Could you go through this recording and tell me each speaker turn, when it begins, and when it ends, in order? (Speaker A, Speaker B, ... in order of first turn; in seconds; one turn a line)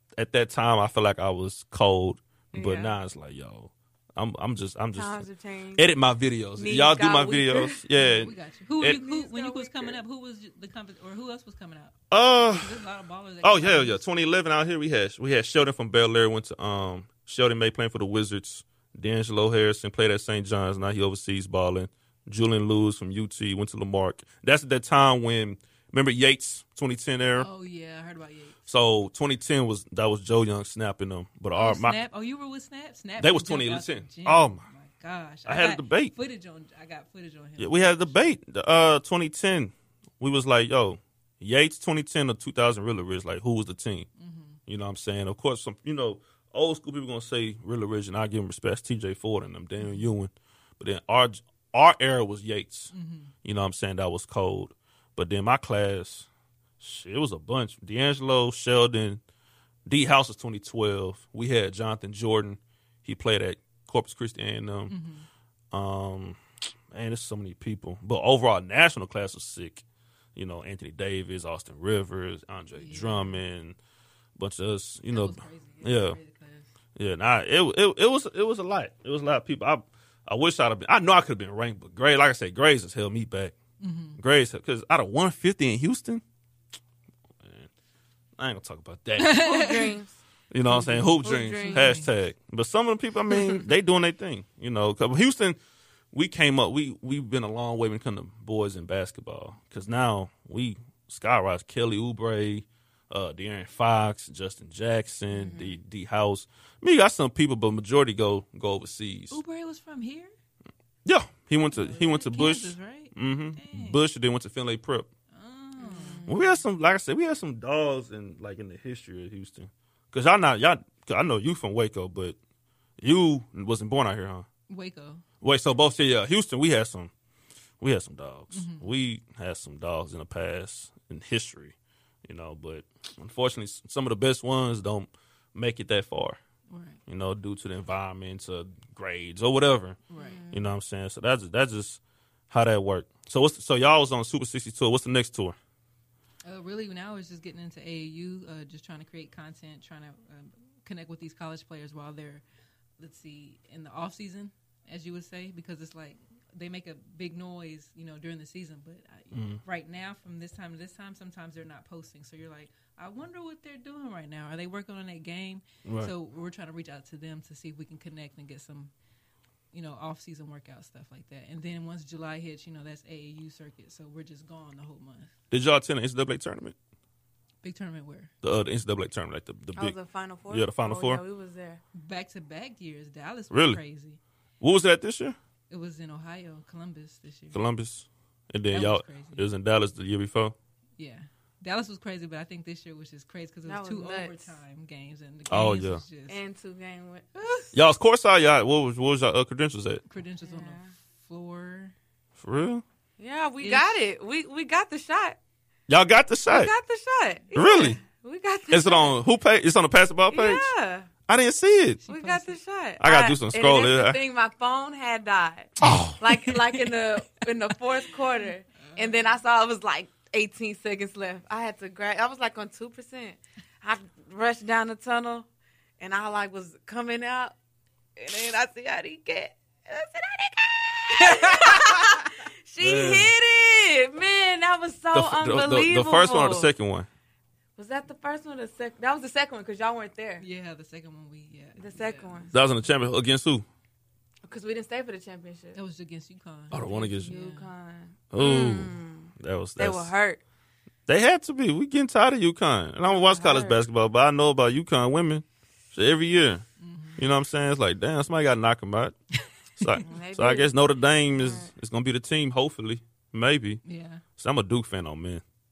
Speaker A: 0.2-5.2
Speaker B: 2.5-3.0
Speaker B: 5.0-5.9
Speaker A: 5.8-9.0
Speaker B: 6.6-7.8
Speaker C: 8.0-14.1
Speaker B: 8.8-10.0
Speaker A: 12.1-12.8
Speaker A: 13.4-27.5
Speaker C: 27.4-28.6
Speaker A: 28.7-32.0
Speaker C: 31.5-38.4
Speaker A: 33.2-34.6
Speaker A: 35.5-36.1
Speaker A: 37.6-44.1
Speaker C: 44.2-44.6
Speaker A: 44.7-52.9
Speaker C: 49.8-50.1
Speaker C: 52.9-53.3
Speaker A: 53.4-56.3
Speaker A: 56.8-59.2
Speaker A: 59.9-64.9
Speaker C: 64.9-65.3
Speaker A: 65.7-69.8
Speaker A: 70.4-73.8
Speaker C: 72.8-73.4
Speaker A: 74.4-76.2
Speaker C: 75.1-76.7
Speaker A: 77.0-83.5
Speaker C: 83.8-84.2
Speaker A: 84.2-86.2
Speaker A: 87.4-87.7
Speaker A: 88.4-89.5
Speaker C: 89.2-90.0
Speaker B: 89.4-90.2
Speaker A: 90.5-95.6
Speaker C: 90.7-92.1
Speaker B: 90.8-92.0
Speaker A: 96.1-109.4
Speaker B: 105.3-105.8
Speaker C: 109.3-110.3
Speaker A: 111.0-115.1
Speaker C: 111.7-114.0
Speaker C: 115.3-116.3
Speaker B: 115.8-116.6
Speaker A: 116.3-122.4
Speaker A: 123.0-124.5
Speaker C: 124.7-125.2
Speaker A: 125.4-127.1
Speaker A: 127.8-136.4
Speaker C: 128.5-128.9
Speaker C: 136.7-137.0
Speaker A: 137.1-140.0
Speaker C: 140.1-140.4
Speaker B: 140.2-140.7
Speaker A: 140.5-145.6
Speaker C: 146.4-152.4
Speaker C: 153.0-168.9
Speaker A: 159.3-159.6
Speaker A: 165.8-166.1
Speaker C: 169.7-175.3
Speaker A: 175.5-176.8
Speaker C: 177.6-178.3
Speaker A: 178.4-180.0
Speaker B: 179.7-181.8
Speaker A: 180.5-181.2
Speaker C: 181.9-184.2
Speaker A: 183.5-183.8
Speaker A: 184.6-185.4
Speaker C: 185.7-187.6
Speaker A: 187.5-190.6
Speaker C: 188.7-189.5
Speaker C: 191.0-196.4
Speaker B: 193.7-194.6
Speaker A: 195.5-196.0
Speaker B: 196.3-197.7
Speaker C: 197.4-197.7
Speaker A: 197.7-200.0
Speaker C: 200.1-201.9
Speaker B: 200.4-200.9
Speaker A: 202.4-202.8
Speaker B: 203.2-205.4
Speaker C: 203.6-204.0
Speaker A: 205.9-206.7
Speaker B: 206.5-209.2
Speaker A: 207.6-208.0
Speaker A: 208.7-210.7
Speaker B: 210.3-211.1
Speaker A: 211.3-212.0
Speaker C: 212.0-212.6
Speaker B: 212.1-225.5
Speaker A: 213.0-214.2
Speaker A: 215.8-216.2
Speaker C: 218.8-219.2
Speaker B: 226.0-227.6
Speaker B: 228.2-236.7
Speaker A: 232.8-233.3
Speaker A: 235.1-237.1
Speaker B: 237.8-240.4
Speaker C: 240.4-242.6
Speaker B: 241.8-242.5
Speaker A: 242.5-243.7
Speaker B: 244.4-245.8
Speaker C: 245.7-247.7
Speaker A: 246.7-247.3
Speaker B: 247.2-250.4
Speaker A: 248.3-250.1
Speaker A: 251.1-256.6
Speaker B: 253.1-253.8
Speaker C: 256.8-257.2
Speaker A: 257.2-259.2
Speaker A: 259.8-263.8
Speaker B: 260.0-260.7
Speaker B: 261.4-261.7
Speaker C: 263.8-264.2
Speaker A: 264.4-265.4